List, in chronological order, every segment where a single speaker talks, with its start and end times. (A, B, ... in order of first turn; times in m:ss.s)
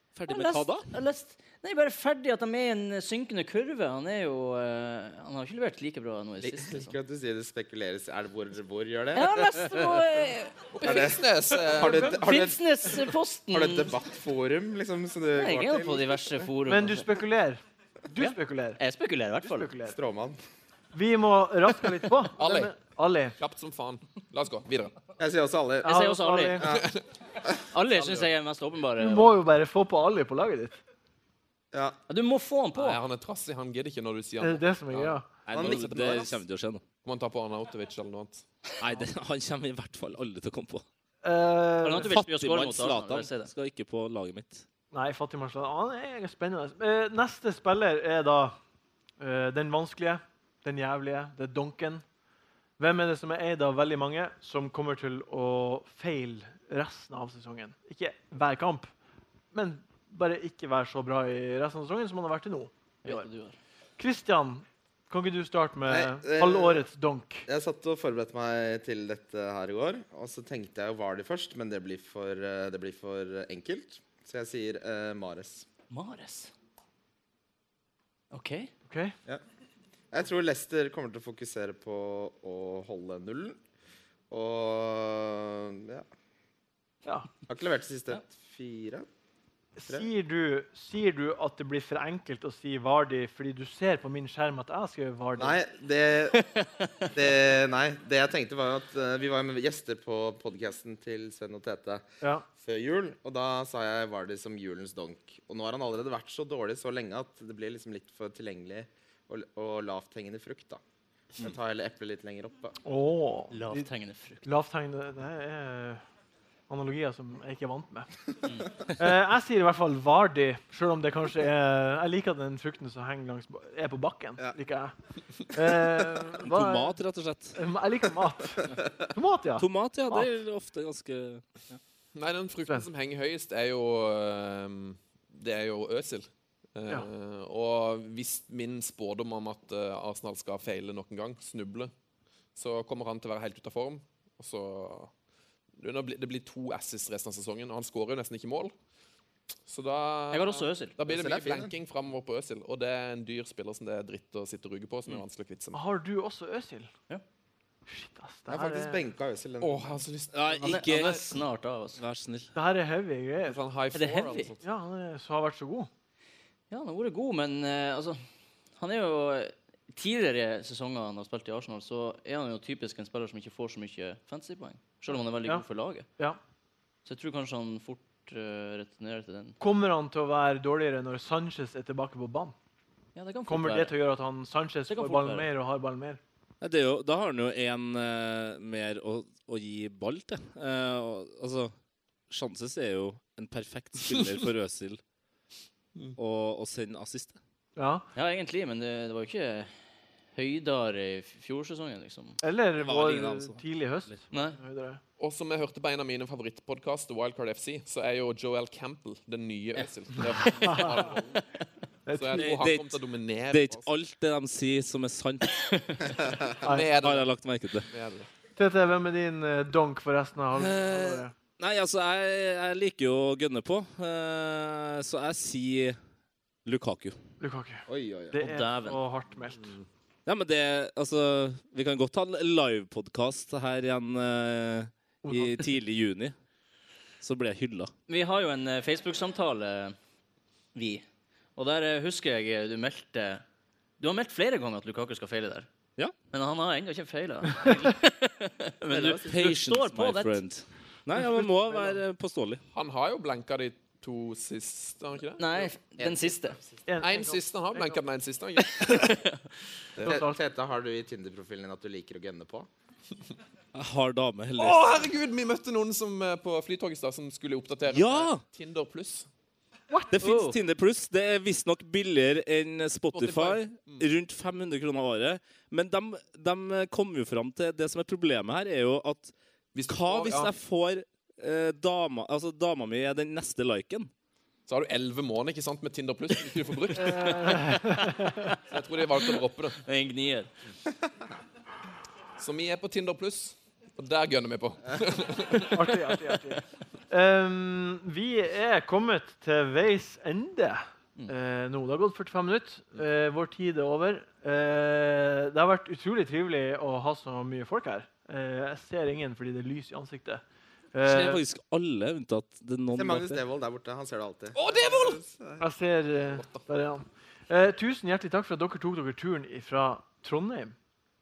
0:00.2-0:00.9 A
0:00.3-0:07.0 B
0:06.4-0:10.0 C
0:09.1-0:11.2 B
0:10.8-0:12.5 D
0:10.8-0:12.6 C
0:11.8-0:13.9 B
0:13.5-0:16.5 C
0:15.4-0:17.1 B
0:16.7-0:18.8 E
0:18.2-0:19.7 B
0:19.4-0:20.0 E
0:19.9-0:20.4 C
0:20.9-0:23.4 E
0:22.4-0:22.7 D
0:23.4-0:25.0 D
0:25.2-0:26.0 C
0:25.8-0:26.6 E
0:25.8-0:26.7 B
0:26.6-0:27.6 C
0:26.7-0:27.0 D
0:27.7-0:29.4 B
0:27.9-0:28.3 D
0:29.0-0:30.8 E
0:31.7-0:32.0 C
0:32.1-0:33.0 B
0:32.8-0:36.4 D
0:34.4-0:35.3 E
0:35.5-0:36.8 A
0:35.5-0:36.4 C
0:37.0-0:38.4 D
0:38.8-0:40.8 A
0:41.2-0:42.2 E
0:41.8-0:43.5 B
0:42.0-0:44.6 A
0:44.9-0:48.6 E
0:49.2-0:52.0 E
0:52.8-0:58.9 E
0:59.5-1:03.3 E
1:03.0-1:03.6 B
1:04.0-1:07.5 E
1:05.9-1:06.8 C
1:07.5-1:15.7 C
1:15.9-1:16.5 B
1:18.3-1:18.7 B
1:18.9-1:19.2 E
1:20.1-1:23.6 C
1:24.3-1:26.1 C
1:27.5-1:29.1 C
1:29.8-1:35.6 E
1:35.4-1:36.4 C
1:36.3-1:37.1 B
1:37.1-1:42.0 C
1:42.2-1:42.5 E
1:42.6-1:50.8 C
1:51.4-1:52.8 C
1:52.8-1:53.9 E
1:53.5-1:54.5 B
1:54.4-1:56.0 E
1:56.7-1:58.1 E
1:58.4-1:58.9 B
1:59.0-2:04.9 E
2:05.5-2:07.0 E
2:06.4-2:07.6 A
2:07.5-2:10.3 E
2:09.6-2:11.8 A
2:12.2-2:21.9 D
2:22.6-2:25.1 D
2:25.8-2:28.8 D
2:29.7-2:35.8 D
2:30.3-2:31.0 B
2:31.1-2:31.7 C
2:35.7-2:36.9 E
2:37.9-2:39.0 E
2:38.5-2:40.0 C
2:39.6-2:41.2 D
2:40.3-2:41.3 A
2:40.6-2:42.0 B
2:42.0-2:42.5 A
2:42.6-2:43.6 E
2:43.5-2:44.6 D
2:43.9-2:44.5 B
2:44.6-2:45.9 E
2:46.7-2:48.2 B
2:48.8-2:56.1 B
2:57.1-2:59.6 B
2:59.6-3:02.6 E
3:03.2-3:04.0 B
3:03.5-3:06.2 E
3:04.9-3:05.5 B
3:06.6-3:11.7 A
3:12.3-3:15.0 A
3:16.2-3:17.4 A
3:17.8-3:18.1 E
3:18.1-3:19.7 B
3:20.3-3:22.4 B
3:22.4-3:25.0 E
3:22.8-3:23.6 A
3:24.3-3:24.6 B
3:25.2-3:31.2 D
3:29.8-3:31.5 B
3:30.6-3:30.9 E
3:32.1-3:32.7 E
3:32.2-3:33.9 D
3:32.4-3:33.0 A
3:33.5-3:35.6 A
3:35.5-3:36.2 B
3:36.6-3:38.3 D
3:36.6-3:36.9 E
3:37.0-3:37.9 A
3:38.6-3:41.3 E
3:40.6-3:46.0 A
3:46.6-3:47.2 A
3:47.4-3:49.8 E
3:47.9-3:48.4 C
3:48.4-3:49.0 B
3:50.3-3:56.3 A
3:55.2-3:55.6 E
3:57.2-3:57.9 A
3:58.1-4:00.0 B
4:00.8-4:01.0 B
4:01.6-4:03.4 B
4:04.0-4:05.7 B
4:06.3-4:10.4 B
4:08.9-4:12.6 A
4:11.2-4:12.0 E
4:12.7-4:15.7 D
4:15.4-4:16.6 B
4:16.0-4:16.8 C
4:16.9-4:18.0 E
4:17.0-4:19.2 D
4:18.7-4:19.4 B
4:20.0-4:20.2 D
4:20.0-4:20.4 E
4:20.0-4:22.7 C
4:23.7-4:25.1 A
4:24.6-4:29.3 D
4:27.9-4:28.4 A
4:30.1-4:39.3 A
4:30.2-4:30.6 B
4:33.1-4:34.1 D
4:39.7-4:40.6 D
4:39.9-4:44.1 A
4:44.7-4:47.5 D
4:47.0-4:48.5 E
4:47.7-4:48.6 B
4:48.7-4:49.8 D
4:49.2-4:50.5 B
4:52.4-4:56.0 D
4:55.7-5:10.4 E
5:10.9-5:11.4 E
5:11.0-5:13.4 A
5:12.9-5:15.6 C
5:14.6-5:15.2 D
5:15.6-5:20.8 E
5:16.3-5:16.7 D